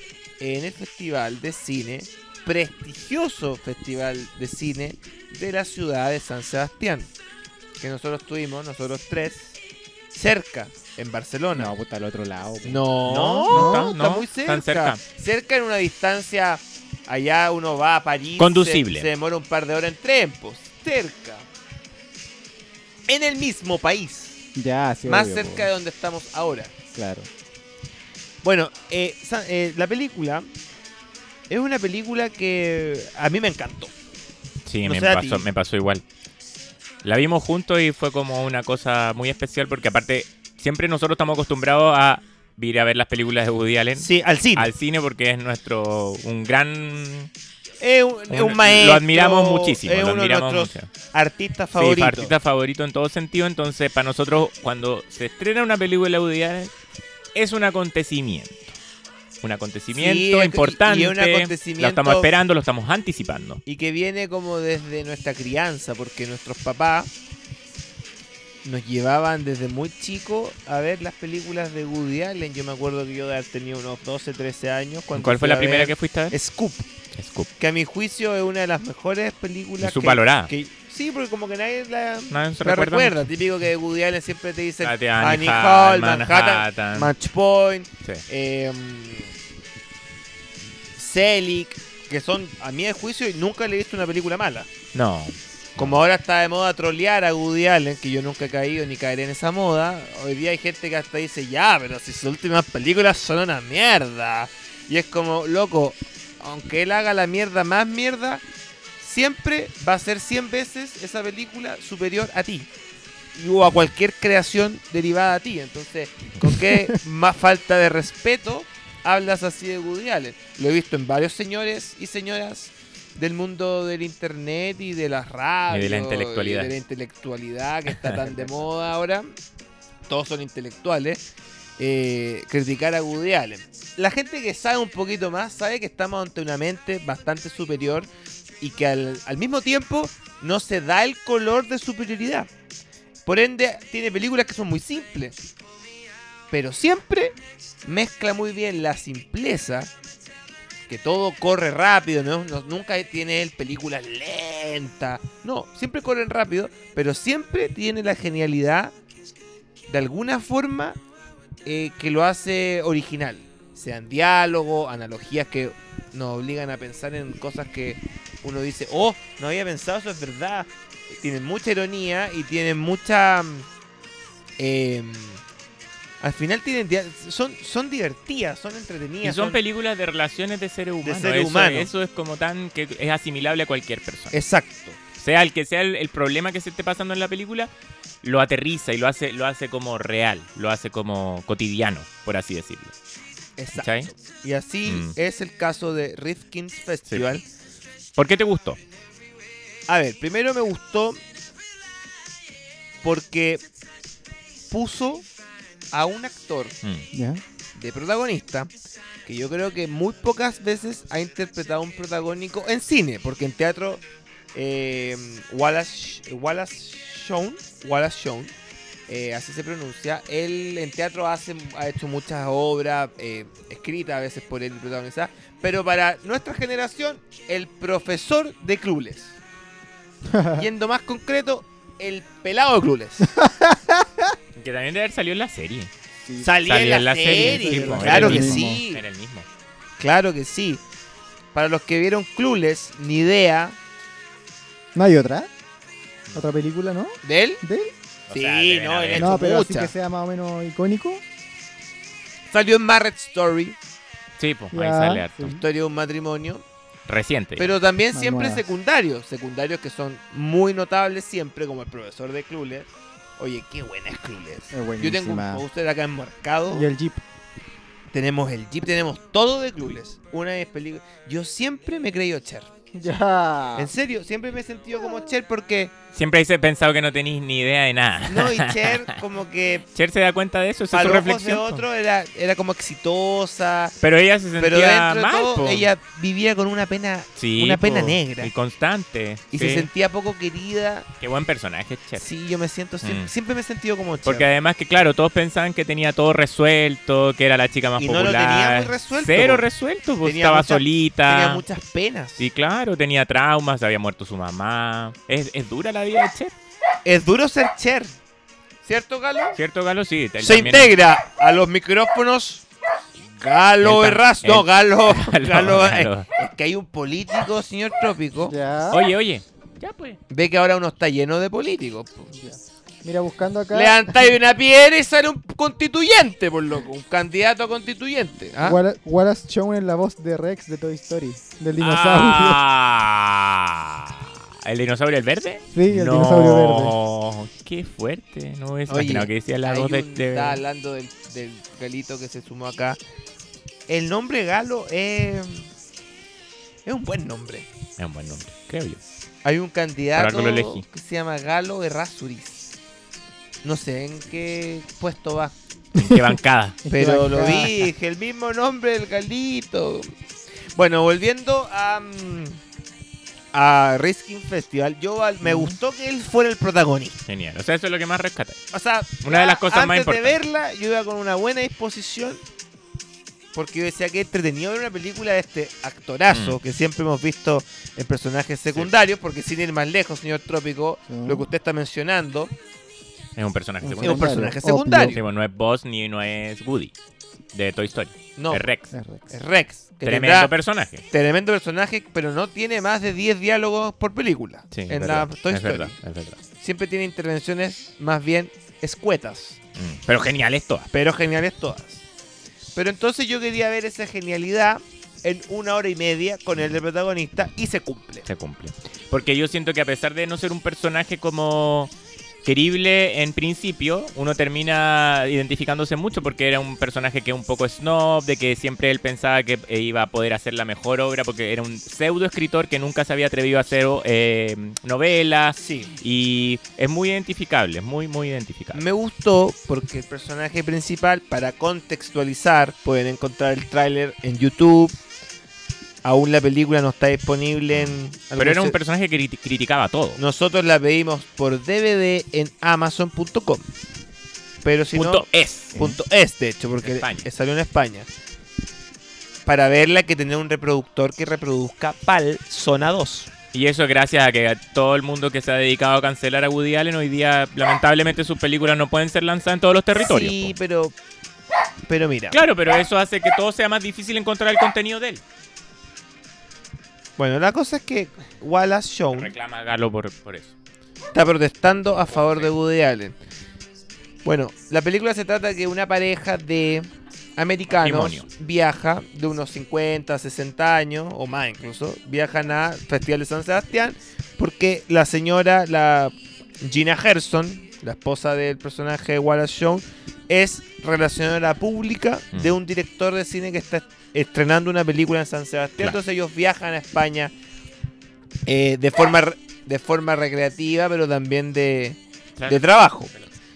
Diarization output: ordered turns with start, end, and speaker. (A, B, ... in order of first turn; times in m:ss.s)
0:00.4-0:07.1 A
0:07.8-0:09.5 A
0:10.1-0:11.7 A
0:11.5-0:12.8 B
0:12.6-0:21.4 A
0:13.0-0:15.0 C
0:13.5-0:14.0 B
0:18.4-0:19.1 C
0:23.1-0:24.4 A
0:24.5-0:25.7 B
0:25.0-0:26.7 A
0:26.9-0:27.3 B
0:28.4-0:30.5 A
0:31.5-0:33.9 A
0:34.6-0:36.0 C
0:34.8-0:35.4 A
0:37.0-0:47.3 C
0:44.0-0:44.7 A
0:47.8-0:52.3 A
0:48.3-0:50.9 C
0:51.7-0:56.7 C
0:57.3-0:58.7 C
0:59.4-1:03.6 C
1:00.0-1:02.3 A
1:03.6-1:07.1 A
1:08.6-1:16.9 A
1:15.1-1:16.3 C
1:17.2-1:17.5 C
1:17.6-1:29.3 A
1:19.8-1:20.5 C
1:22.3-1:23.2 C
1:24.8-1:27.1 C
1:31.0-1:34.7 A
1:34.9-1:36.0 C
1:35.8-1:48.4 A
1:49.0-1:52.7 A
1:53.3-2:09.3 A
2:05.7-2:06.7 C
2:07.9-2:08.2 C
2:10.1-2:11.2 A
2:11.8-2:18.1 A
2:18.6-2:22.5 A
2:23.2-2:25.4 A
2:26.5-2:29.9 A
2:30.9-2:38.9 A
2:39.9-2:41.0 A
2:41.6-2:53.7 A
2:54.6-2:55.4 A
2:56.2-2:59.6 A
2:59.2-3:04.3 C
3:01.0-3:01.9 A
3:04.3-3:05.0 A
3:05.2-3:07.7 C
3:08.2-3:12.9 C
3:13.6-3:17.4 A
3:13.7-3:14.1 C
3:14.8-3:15.1 C
3:18.2-3:18.8 C
3:19.9-3:21.2 A
3:23.0-3:23.6 A
3:24.7-3:25.2 A
3:25.9-3:26.8 A
3:27.1-3:27.4 B
3:27.8-3:28.7 A
3:29.2-3:34.0 A
3:34.5-3:38.5 A
3:39.1-3:49.4 A
3:50.3-3:50.6 B
3:50.6-3:53.3 A
3:53.4-3:54.4 B
3:54.6-3:55.9 C
3:56.4-3:59.0 A
3:56.6-3:59.5 C
3:57.3-3:58.8 B
4:00.0-4:00.8 A
4:01.5-4:03.8 A
4:04.9-4:05.5 B
4:06.3-4:07.9 B
4:07.2-4:07.6 A
4:08.3-4:09.3 C
4:08.3-4:09.9 A
4:09.1-4:11.2 B
4:12.5-4:13.8 A
4:14.4-4:15.5 C
4:14.7-4:15.6 B
4:15.4-4:16.6 A
4:17.1-4:17.8 C
4:17.6-4:26.9 A
4:18.1-4:18.6 B
4:24.7-4:25.6 B
4:26.7-4:27.2 B
4:28.1-4:32.7 A
4:32.9-4:33.9 B
4:33.8-4:35.9 A
4:36.1-4:39.2 C
4:38.3-4:39.8 A
4:39.9-4:41.8 C
4:40.9-4:43.9 A
4:44.0-4:45.9 C
4:44.6-4:48.5 A
4:47.4-4:49.9 C
4:49.5-4:51.1 A
4:51.2-4:52.2 C
4:52.2-4:54.5 A
4:53.0-4:53.3 C
4:54.2-5:01.6 C
4:58.0-4:59.6 A
5:00.2-5:02.5 A
5:02.4-5:06.5 C
5:07.0-5:08.1 A
5:08.8-5:09.6 A
5:09.6-5:10.9 C
5:10.4-5:12.6 A
5:13.3-5:18.5 A
5:13.8-5:16.3 C
5:18.5-5:19.0 B
5:18.9-5:20.2 C
5:20.3-5:22.3 A
5:22.3-5:24.3 B
5:23.7-5:28.8 A
5:28.6-5:32.6 B
5:31.8-5:40.6 C
5:35.7-5:36.9 B
5:38.9-5:43.0 A
5:43.9-5:45.7 A
5:46.8-5:47.7 A
5:48.0-5:49.0 C
5:49.4-5:52.7 A
5:50.2-5:50.8 C
5:53.6-5:55.5 A
5:55.9-5:56.8 C
5:56.0-5:56.3 B
5:56.8-5:57.7 B
5:56.9-6:00.1 A
6:00.7-6:02.6 A
6:03.5-6:07.2 A
6:05.4-6:05.8 B
6:07.2-6:08.6 C
6:08.7-6:12.4 A
6:09.2-6:10.4 C
6:13.5-6:22.5 A
6:16.3-6:16.6 C
6:21.1-6:21.4 B
6:23.4-6:24.5 C
6:23.8-6:25.2 B
6:24.0-6:25.2 A
6:25.1-6:26.9 C
6:27.5-6:28.9 C
6:28.4-6:28.7 A
6:28.9-6:29.3 B
6:29.3-6:30.5 A
6:30.0-6:31.0 C
6:31.1-6:35.9 A
6:34.7-6:36.4 C
6:36.6-6:39.6 A
6:39.8-6:40.9 C
6:40.9-6:42.0 A
6:42.8-6:48.2 A
6:48.2-6:51.9 C
6:52.4-7:08.8 C
7:05.6-7:05.9 A
7:08.7-7:15.0 A
7:16.0-7:18.8 A
7:17.7-7:20.2 C
7:20.2-7:23.6 A
7:24.6-7:28.1 A
7:24.9-7:26.0 C
7:26.8-7:27.3 C
7:29.4-7:33.3 A
7:33.5-7:40.5 C
7:40.0-7:40.9 A
7:41.9-7:42.4 A
7:42.3-7:45.2 C
7:47.2-7:49.3 A
7:49.1-7:50.5 C
7:51.1-7:53.1 A
7:52.0-7:52.5 C
7:54.2-8:17.3 A
7:57.7-7:58.3 C
8:18.4-8:23.1 A
8:22.4-8:23.3 C